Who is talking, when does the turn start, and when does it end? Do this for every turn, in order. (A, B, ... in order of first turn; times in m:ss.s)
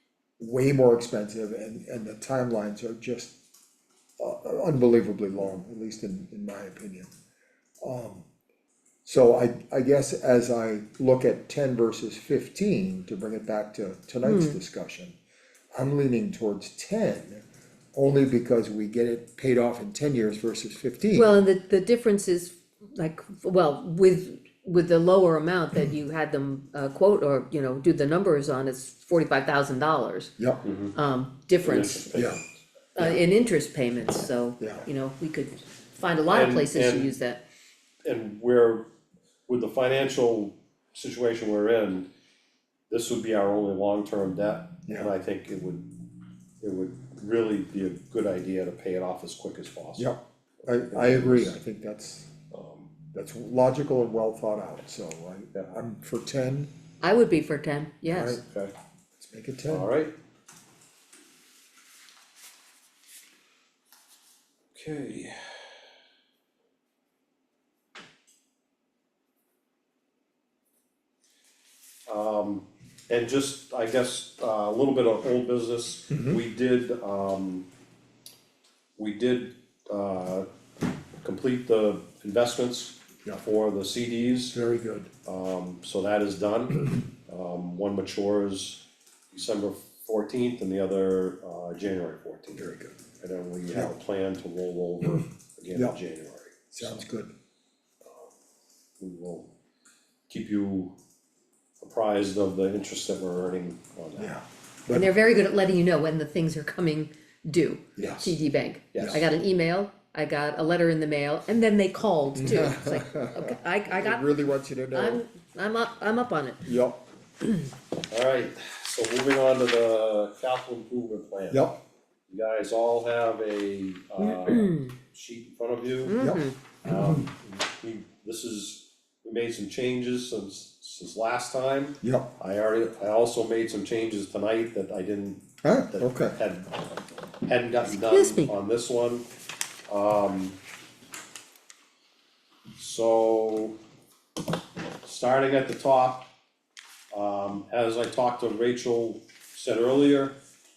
0:00.4-0:03.3 A
0:04.2-0:07.1 A
0:07.8-0:08.3 A
0:09.0-0:15.2 A
0:14.2-0:14.6 B
0:15.8-0:17.4 A
0:17.9-0:21.4 A
0:21.1-0:30.3 B
0:30.4-0:30.6 A
0:30.6-0:30.9 C
0:30.9-0:32.1 B
0:31.6-0:32.6 C
0:32.1-0:32.4 A
0:33.0-0:37.4 B
0:34.6-0:34.9 A
0:36.3-0:37.1 C
0:38.0-0:38.9 C
0:39.5-0:42.1 C
0:42.9-0:46.0 C
0:44.9-0:45.1 A
0:46.6-0:50.1 C
0:50.0-0:52.3 A
0:50.9-0:51.6 C
0:52.5-0:52.9 C
0:53.1-0:56.7 A
0:57.0-0:58.4 B
0:58.1-0:58.4 A
0:58.4-0:58.8 C
0:59.2-0:59.9 A
0:59.7-1:00.1 C
1:04.7-1:05.6 C
1:12.1-1:17.7 C
1:16.1-1:16.4 A
1:19.0-1:20.5 C
1:21.2-1:24.6 C
1:24.5-1:25.1 A
1:25.3-1:37.0 C
1:32.6-1:33.0 A
1:36.7-1:37.3 A
1:39.0-1:39.5 C
1:40.3-1:41.0 C
1:41.8-1:44.4 C
1:44.2-1:45.1 A
1:44.9-1:54.2 B
1:48.0-1:48.4 A
1:48.9-1:49.2 C
1:52.4-1:55.2 A
1:54.9-1:56.7 B
1:56.7-1:57.0 A
1:58.1-2:01.7 C
2:01.5-2:01.8 A
2:02.3-2:06.2 C
2:04.2-2:05.0 B
2:06.0-2:06.6 B
2:06.2-2:07.3 A
2:06.8-2:16.7 C
2:12.0-2:12.3 A
2:15.6-2:16.4 A
2:17.4-2:19.2 C
2:17.9-2:18.5 B
2:19.9-2:20.6 C
2:22.8-2:23.8 C
2:25.0-2:26.3 C
2:27.1-2:30.4 C